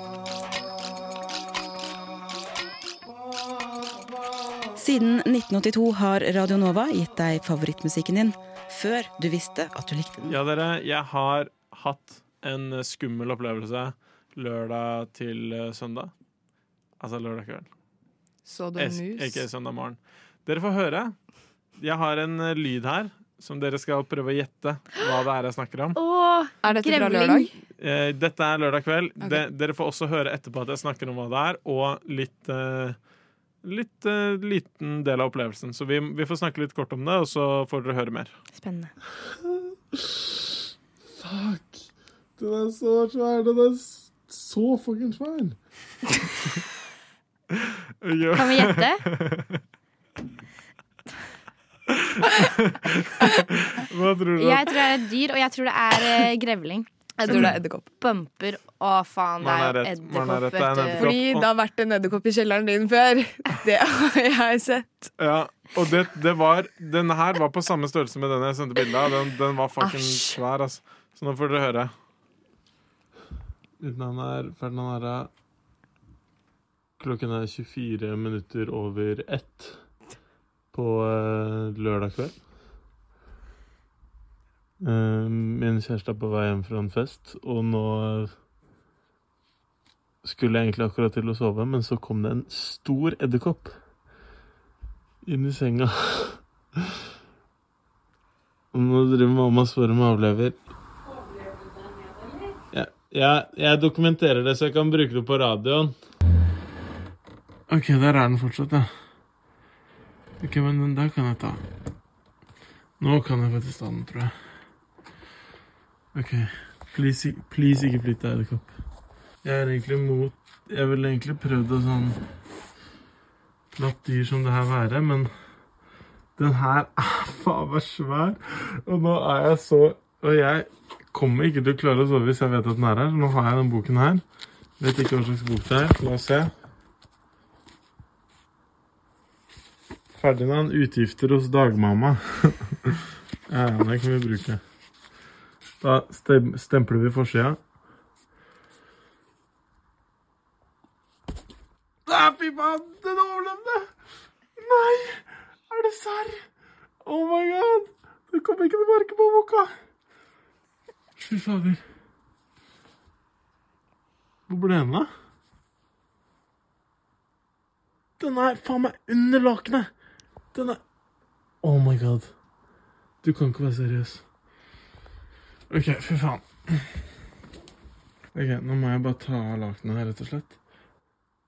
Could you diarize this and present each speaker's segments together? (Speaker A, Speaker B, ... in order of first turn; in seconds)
Speaker A: 4.8-10.3
Speaker B: 10.3-16.1, 17.0-17.7, 18.8-21.1, 21.8-26.0, 27.8-33.0, 33.6-38.4, 48.0-49.6, 52.0-54.7, 59.4-61.5, 65.2-71.9
Speaker C: 18.4-19.4, 26.6-27.5, 57.3-57.9, 60.9-65.1, 69.8-70.4
Speaker D: 25.9-27.5, 38.5-38.9, 48.3-49.0, 54.4-61.1
Speaker E: 39.9-40.3, 41.2-45.6, 73.8-75.3, 77.0-79.8, 80.7-82.4, 84.8-88.3, 90.2-93.8, 95.2-96.4, 98.7-100.6, 102.7-105.9, 107.7-108.9, 110.4-111.6, 113.0-114.3, 116.1-118.7, 119.4-122.2, 123.7-125.3, 126.4-134.2, 134.8-136.5, 140.1-142.9, 143.5-144.6, 145.8-147.6, 152.1-153.9, 154.6-156.4, 157.0-159.7, 161.2-161.8, 164.5-165.1, 168.2-169.9, 170.5-170.8, 171.6-172.3, 173.2-174.2, 175.7-176.9, 178.3-180.5